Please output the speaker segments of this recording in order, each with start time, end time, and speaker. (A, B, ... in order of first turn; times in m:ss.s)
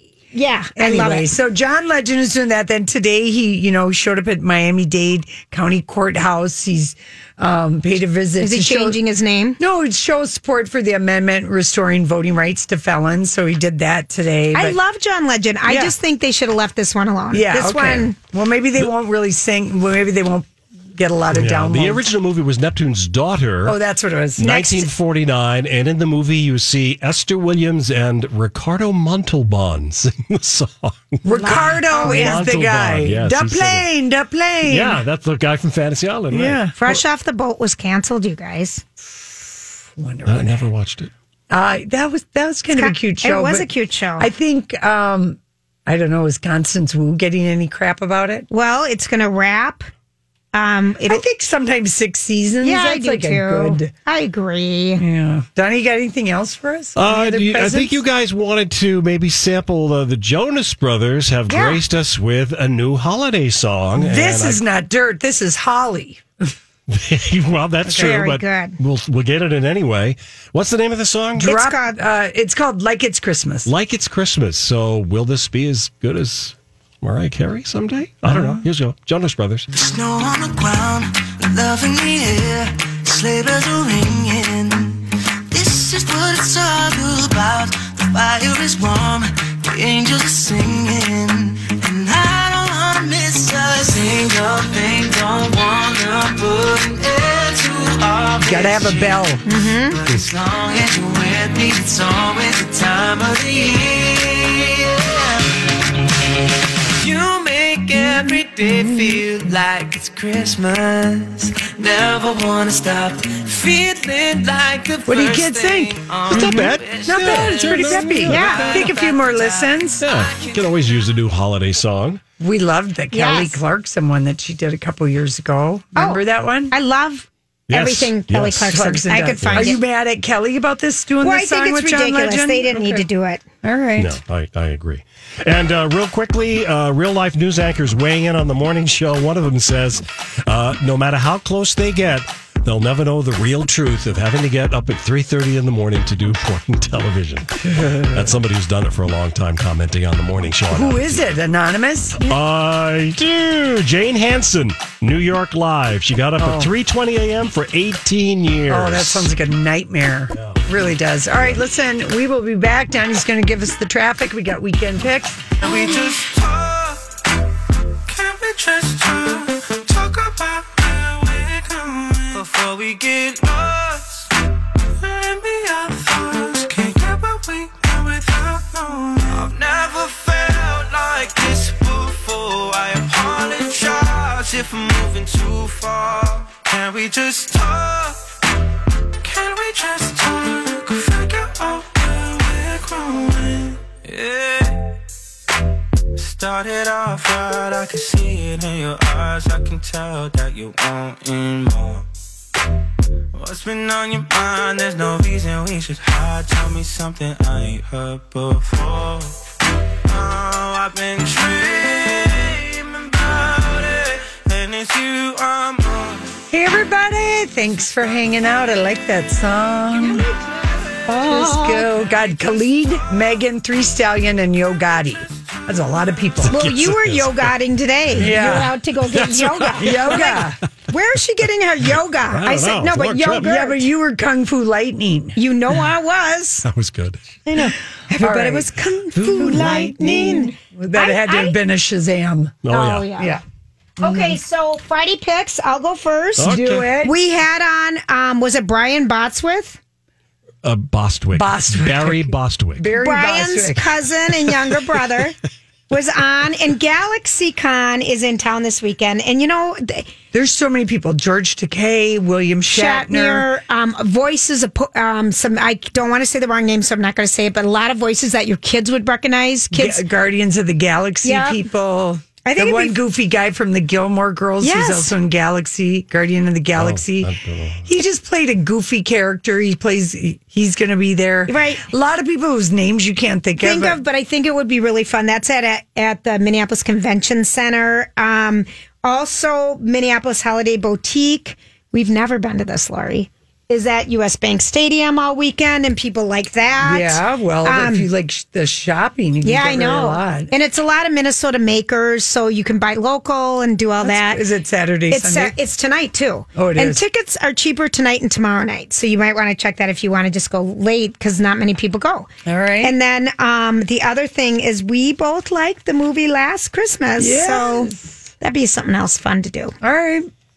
0:00.3-0:01.3 A
0:00.8-0:09.0 B
0:08.4-0:09.6 A
0:09.6-0:14.8 B
0:14.5-0:18.2 A
0:15.6-0:15.9 B
0:17.3-0:22.1 B
0:21.3-0:23.8 C
0:23.6-0:24.5 B
0:24.4-0:33.8 C
0:24.4-0:24.9 A
0:31.2-0:35.0 B
0:31.3-0:32.4 A
0:34.6-0:36.6 C
0:36.3-0:36.7 B
0:36.8-0:38.8 A
0:40.0-0:40.6 B
0:40.3-0:41.1 C
0:41.5-0:48.5 B
0:42.7-0:44.3 A
0:48.5-0:49.9 A
0:50.5-0:51.2 A
0:51.1-0:53.9 B
0:52.6-0:55.0 A
0:55.0-0:58.0 B
0:57.0-1:04.6 C
1:01.5-1:01.8 A
1:03.9-1:06.2 B
1:06.9-1:11.5 C
1:07.9-1:08.8 A
1:11.4-1:13.7 B
1:11.4-1:11.9 A
1:13.6-1:19.7 C
1:18.3-1:18.6 B
1:19.7-1:39.2 D
1:38.4-1:39.4 B
1:39.4-1:40.0 A
1:40.1-1:45.5 D
1:47.0-2:00.5 D
1:55.1-2:00.0 B
1:56.3-1:56.7 A
1:56.3-1:58.9 C
1:58.2-1:58.7 A
2:00.0-2:02.2 C
2:02.4-2:06.7 B
2:03.1-2:03.6 A
2:06.0-2:09.8 A
2:07.7-2:08.8 C
2:08.6-2:13.0 B
2:09.4-2:09.8 C
2:11.2-2:13.4 A
2:13.6-2:14.2 B
2:14.0-2:31.3 C
2:27.8-2:28.2 B
2:30.7-2:32.2 B
2:32.2-2:39.3 C
2:36.4-2:36.7 B
2:38.7-2:45.5 B
2:40.3-2:40.6 C
2:45.6-2:47.2 D
2:48.1-2:54.3 D
2:55.0-3:08.3 D
3:09.2-3:14.9 D
3:16.2-3:22.1 D
3:23.3-3:29.4 D
3:30.1-3:36.3 D
3:36.5-3:40.2 B
3:41.1-3:46.6 B
3:41.1-3:41.9 A
3:46.4-3:47.5 C
3:46.5-3:53.9 A
3:48.1-3:50.4 C
3:48.2-3:48.7 B
3:49.8-3:50.6 B
3:52.2-3:53.5 C
3:53.4-3:55.4 B
3:55.4-3:56.6 A
3:56.6-3:57.4 C
3:57.5-4:01.6 A
3:58.1-4:02.6 B
4:02.6-4:03.1 C
4:02.7-4:03.4 A
4:04.0-4:04.4 B
4:04.0-4:09.8 A
4:06.4-4:06.9 C
4:06.4-4:07.1 B
4:10.6-4:12.8 C
4:11.4-4:13.9 B
4:13.0-4:15.4 A
4:15.9-4:20.1 A
4:20.3-4:23.5 B
4:22.7-4:30.0 A
4:29.7-4:37.3 B
4:31.2-4:31.6 A
4:32.4-4:33.0 A
4:34.6-4:35.1 A
4:36.8-4:37.9 C
4:37.9-4:44.0 B
4:41.5-4:41.8 A
4:43.6-4:58.1 A
4:56.8-5:00.5 B
4:59.4-5:04.4 A
5:04.0-5:05.6 B
5:05.1-5:12.3 A
5:06.6-5:07.0 B
5:12.4-5:12.9 B
5:12.8-5:19.8 A
5:17.2-5:18.3 B
5:19.8-5:20.3 B